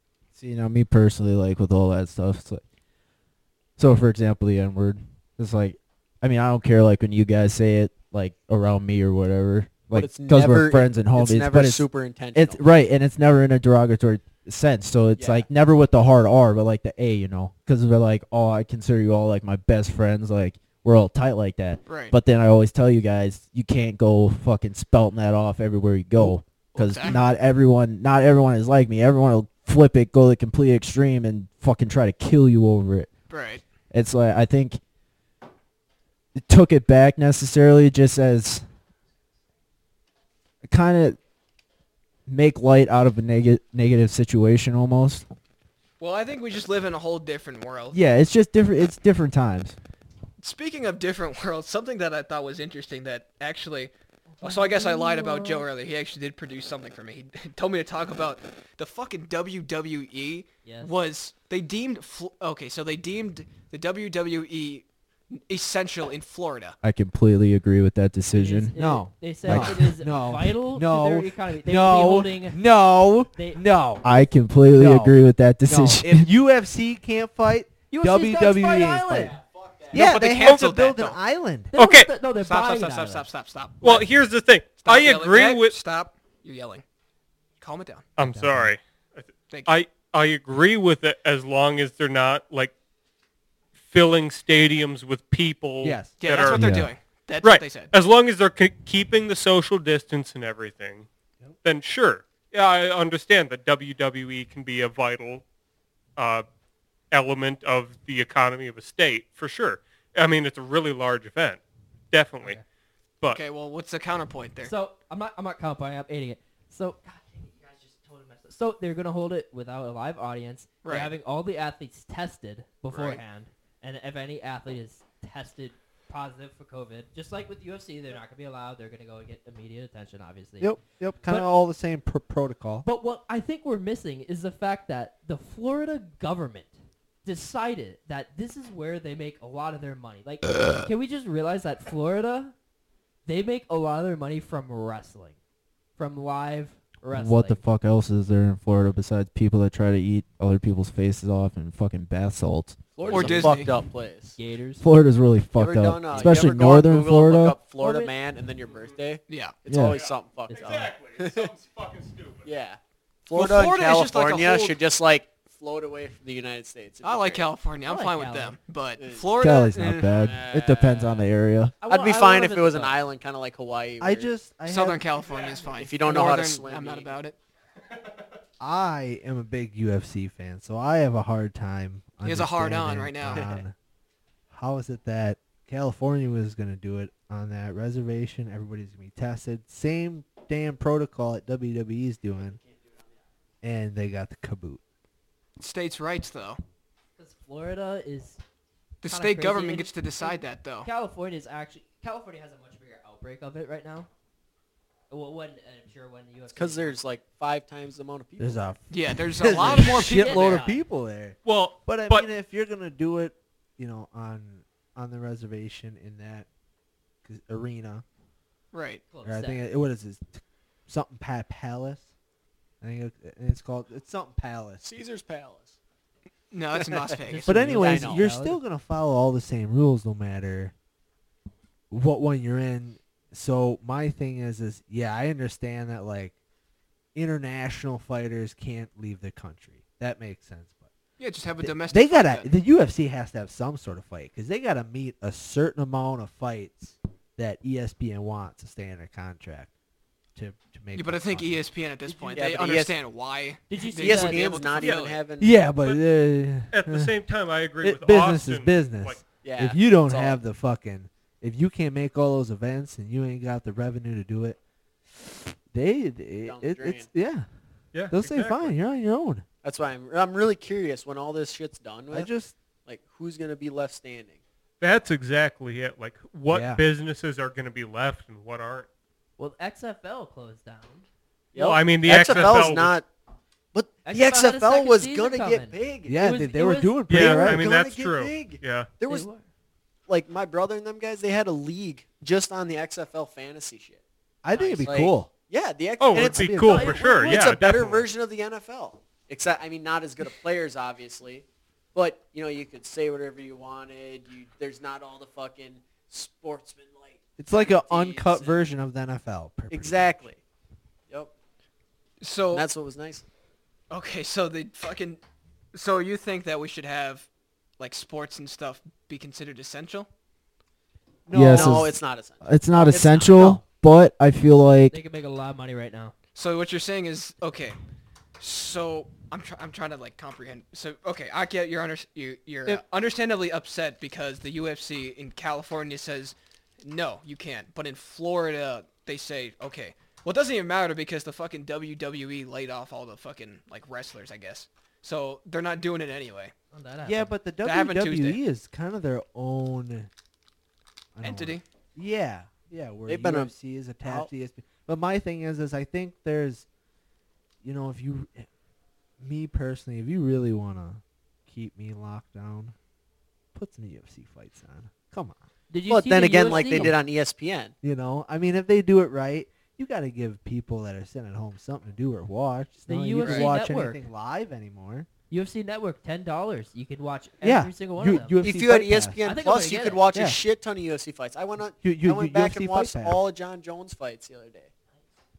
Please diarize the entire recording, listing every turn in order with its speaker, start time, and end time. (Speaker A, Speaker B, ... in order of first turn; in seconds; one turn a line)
Speaker A: 0.3-2.6
Speaker A: 3.8-33.1
Speaker B: 9.9-12.6
Speaker B: 15.2-15.5
Speaker C: 21.9-22.1
Speaker C: 26.2-27.2
Speaker C: 33.3-33.6
Speaker A: 33.9-34.8
Speaker A: 36.4-38.7
Speaker A: 40.6-41.2
Speaker A: 42.3-45.2
Speaker C: 46.0-48.0
Speaker A: 47.9-49.8
Speaker C: 50.4-66.8
Speaker D: 54.4-55.7
Speaker D: 60.6-60.9
Speaker A: 66.8-68.8
Speaker D: 68.3-72.6
Speaker E: 68.8-74.1
Speaker A: 69.4-70.0
Speaker D: 73.3-73.6
Speaker A: 74.0-76.3
Speaker E: 74.7-79.4
Speaker D: 77.9-79.4
Speaker E: 79.9-81.7
Speaker C: 79.9-81.2
Speaker D: 81.7-83.3
Speaker F: 81.8-82.1
Speaker C: 82.4-84.1
Speaker F: 83.8-85.8
Speaker C: 84.8-86.8
Speaker C: 87.6-88.1
Speaker F: 88.2-92.7
Speaker E: 88.2-88.7
Speaker F: 93.8-96.8
Speaker E: 95.8-96.3
Speaker C: 96.2-97.9
Speaker A: 96.5-96.9
Speaker F: 97.4-101.1
Speaker F: 101.6-105.4
Speaker F: 106.2-106.5
Speaker F: 107.1-111.6
Speaker F: 112.1-112.6
Speaker C: 113.3-114.7
Speaker D: 114.6-130.8
Speaker C: 120.8-121.1
Speaker C: 122.9-123.2
Speaker E: 130.6-132.9
Speaker D: 132.8-142.6
Speaker D: 143.3-145.4
Speaker D: 146.0-147.6
Speaker A: 147.1-152.9
Speaker D: 153.0-153.7
Speaker B: 153.0-154.4
Speaker C: 153.1-153.7
Speaker D: 154.4-154.8
Speaker A: 154.8-157.6
Speaker B: 155.6-161.5
Speaker D: 157.8-158.1
Speaker F: 158.6-159.0
Speaker C: 159.3-159.6
Speaker A: 159.7-160.0
Speaker F: 159.8-162.5
Speaker B: 162.4-167.5
Speaker C: 163.3-164.8
Speaker C: 167.0-170.2
Speaker D: 167.9-168.6
Speaker B: 169.0-169.4
Speaker A: 169.4-171.8
Speaker B: 170.1-171.3
Speaker D: 171.8-172.9
Speaker B: 171.9-174.3
Speaker E: 174.0-175.1
Speaker C: 174.7-177.4
Speaker B: 175.7-177.1
Speaker E: 178.6-183.8
Speaker C: 182.2-183.6
Speaker E: 184.5-192.6
Speaker B: 192.3-193.2
Speaker E: 193.6-194.8
Speaker C: 195.6-196.6
Speaker D: 197.2-198.4
Speaker C: 199.0-200.9
Speaker D: 199.1-204.1
Speaker D: 205.1-207.0
Speaker B: 206.5-208.8
Speaker E: 208.4-216.5
Speaker C: 208.9-210.7
Speaker D: 209.8-210.8
Speaker F: 211.4-212.3
Speaker E: 217.2-218.1
Speaker C: 218.7-219.0
Speaker D: 219.1-219.7
Speaker E: 219.2-222.1
Speaker E: 222.8-224.9
Speaker B: 224.8-225.8
Speaker C: 226.5-227.5
Speaker B: 226.8-228.2
Speaker D: 227.3-228.6
Speaker E: 227.5-230.7
Speaker E: 231.9-236.4
Speaker E: 237.2-240.9
Speaker C: 241.2-242.5
Speaker E: 241.6-249.7
Speaker E: 250.3-251.6
Speaker C: 250.9-255.2
Speaker D: 252.1-252.4
Speaker B: 252.3-252.9
Speaker D: 253.7-254.5
Speaker B: 254.0-255.7
Speaker E: 255.4-257.1
Speaker F: 255.8-256.1
Speaker F: 256.7-259.2
Speaker E: 257.8-264.6
Speaker B: 259.4-260.4
Speaker E: 265.1-267.5
Speaker B: 266.4-267.1
Speaker F: 267.9-268.8
Speaker E: 268.1-269.4
Speaker B: 269.6-272.3
Speaker E: 272.1-272.6
Speaker B: 272.9-274.4
Speaker F: 274.8-278.9
Speaker E: 276.5-276.8
Speaker D: 279.4-281.1
Speaker B: 281.5-283.1
Speaker F: 281.6-283.0
Speaker B: 283.7-286.2
Speaker D: 284.1-287.2
Speaker E: 286.1-287.7
Speaker F: 287.1-288.9
Speaker B: 287.1-289.3
Speaker D: 289.1-289.4
Speaker B: 290.1-294.0
Speaker E: 294.4-295.3
Speaker B: 294.6-308.5
Speaker F: 296.0-298.1
Speaker E: 296.1-297.0
Speaker D: 296.7-297.5
Speaker E: 307.4-310.3
Speaker B: 309.7-310.4
Speaker C: 312.2-312.7
Speaker B: 312.5-313.2
Speaker C: 313.9-315.2
Speaker C: 315.7-317.3
Speaker C: 317.8-320.1
Speaker E: 321.3-321.9
Speaker A: 321.3-325.0
Speaker B: 321.5-323.6
Speaker D: 324.9-326.1
Speaker C: 326.4-327.8
Speaker C: 328.4-346.5
Speaker D: 346.7-347.4
Speaker E: 347.1-350.1
Speaker C: 347.6-348.4
Speaker E: 351.1-356.7
Speaker C: 351.2-351.6
Speaker B: 353.1-353.5
Speaker E: 357.6-358.5
Speaker E: 359.2-362.8
Speaker E: 363.5-365.4
Speaker D: 365.7-366.9
Speaker B: 365.9-367.8
Speaker E: 366.5-367.0
Speaker E: 367.8-375.1
Speaker D: 372.9-374.0
Speaker D: 375.3-378.4
Speaker E: 377.4-379.2
Speaker B: 378.4-384.7
Speaker D: 379.2-380.1
Speaker E: 380.1-380.4
Speaker E: 381.8-383.2